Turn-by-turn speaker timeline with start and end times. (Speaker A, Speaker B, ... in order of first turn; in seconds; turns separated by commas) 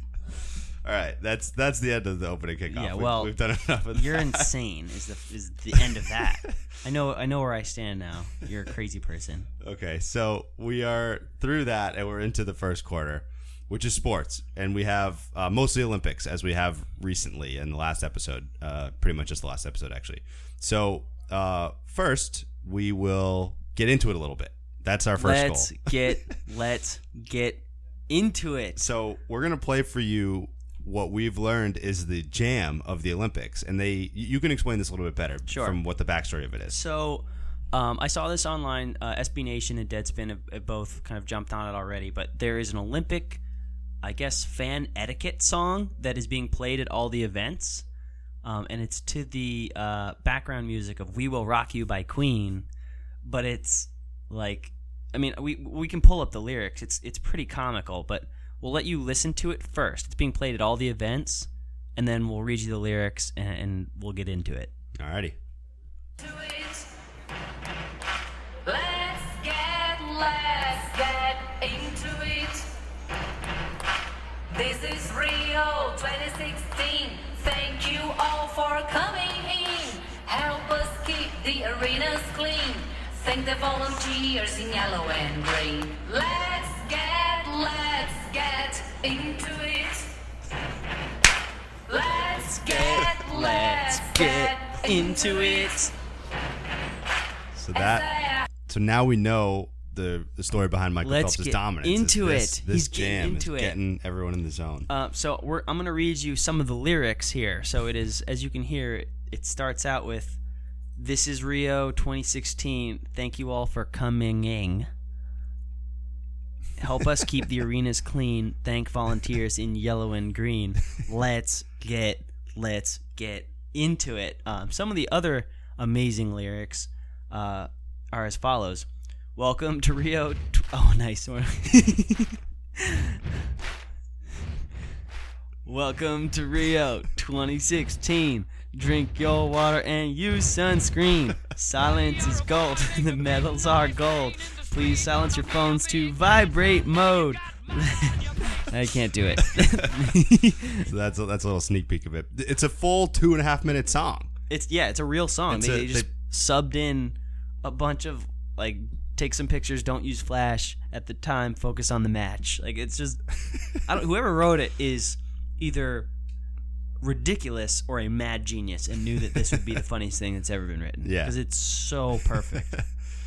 Speaker A: 0.3-4.5, Speaker B: 2.7-3.3, Speaker B: 3.9-9.5, Speaker A: 5.7-6.5, Speaker A: 9.6-26.4, Speaker B: 25.1-28.8, Speaker A: 28.8-36.8, Speaker B: 35.5-35.8, Speaker B: 36.7-43.4, Speaker B: 44.0-47.9, Speaker B: 48.4-52.7, Speaker B: 53.2-64.7, Speaker A: 65.0-65.3, Speaker C: 66.2-66.9, Speaker C: 68.6-72.7, Speaker C: 74.5-90.2, Speaker C: 91.9-95.9, Speaker B: 92.3-95.9, Speaker A: 97.5-98.1, Speaker C: 97.7-98.5, Speaker A: 98.7-104.9, Speaker B: 101.0-103.8, Speaker B: 104.9-110.4, Speaker B: 111.0-114.9, Speaker B: 116.8-133.4, Speaker B: 135.6-150.9, Speaker A: 149.4-149.9, Speaker A: 150.8-154.3, Speaker B: 154.5-166.1, Speaker A: 155.5-156.1, Speaker B: 167.0-172.7, Speaker A: 171.0-171.4, Speaker A: 172.4-172.8